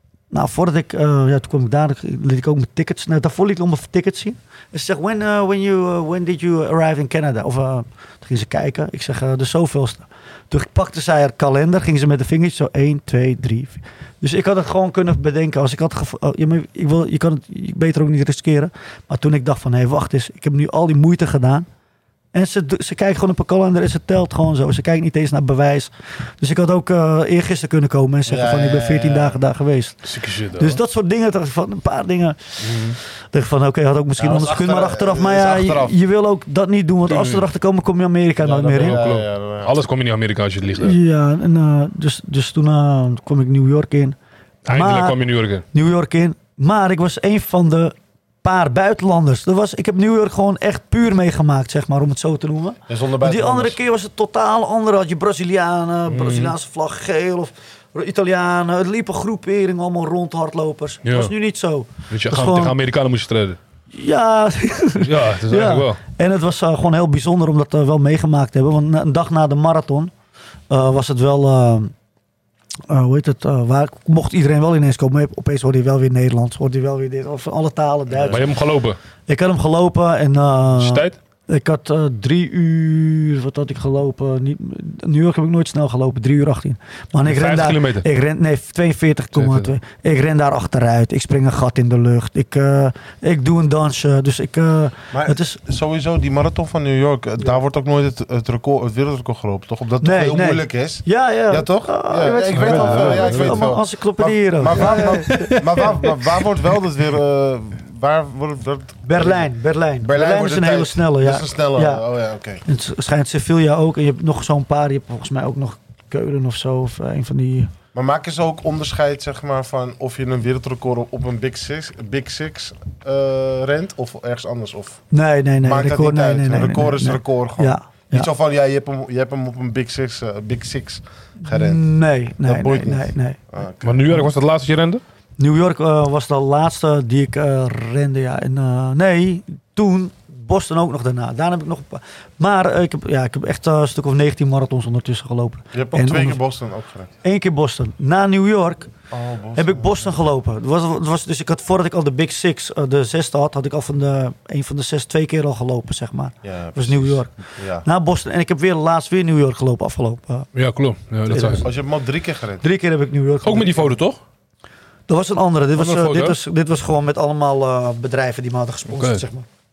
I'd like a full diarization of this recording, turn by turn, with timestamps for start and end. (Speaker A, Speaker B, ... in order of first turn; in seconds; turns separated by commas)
Speaker A: 0.3-21.6, Speaker A: 22.3-39.0, Speaker B: 28.3-29.4, Speaker C: 30.0-30.8, Speaker C: 32.6-32.9, Speaker B: 34.2-36.0, Speaker C: 37.1-37.4, Speaker B: 38.4-39.7, Speaker C: 38.8-41.0, Speaker A: 40.8-44.1, Speaker C: 44.6-45.6, Speaker A: 44.7-62.7, Speaker B: 52.9-53.8, Speaker C: 56.1-56.5, Speaker C: 61.0-61.3, Speaker C: 62.1-63.6, Speaker A: 63.9-70.1, Speaker C: 65.0-66.0, Speaker A: 70.7-71.9, Speaker A: 72.9-78.5, Speaker B: 78.1-78.4, Speaker C: 78.3-79.0, Speaker A: 79.3-95.6, Speaker C: 80.8-81.2, Speaker C: 87.2-88.0, Speaker C: 89.3-89.8, Speaker B: 95.1-112.6, Speaker A: 100.0-105.8, Speaker C: 102.5-103.7, Speaker C: 104.7-106.1, Speaker A: 109.0-112.0, Speaker A: 112.6-117.7, Speaker B: 117.9-125.0, Speaker A: 125.1-128.3, Speaker B: 125.6-134.0, Speaker A: 131.4-133.4, Speaker C: 133.8-135.0, Speaker A: 135.4-146.4, Speaker B: 145.7-147.1, Speaker A: 147.2-148.9, Speaker B: 149.1-150.1, Speaker A: 149.5-160.5, Speaker B: 156.4-157.8, Speaker C: 160.5-161.6, Speaker A: 161.3-161.8, Speaker B: 161.6-162.6, Speaker A: 162.6-163.9, Speaker C: 163.4-164.2, Speaker A: 165.1-169.5, Speaker C: 165.8-166.3, Speaker C: 168.9-169.2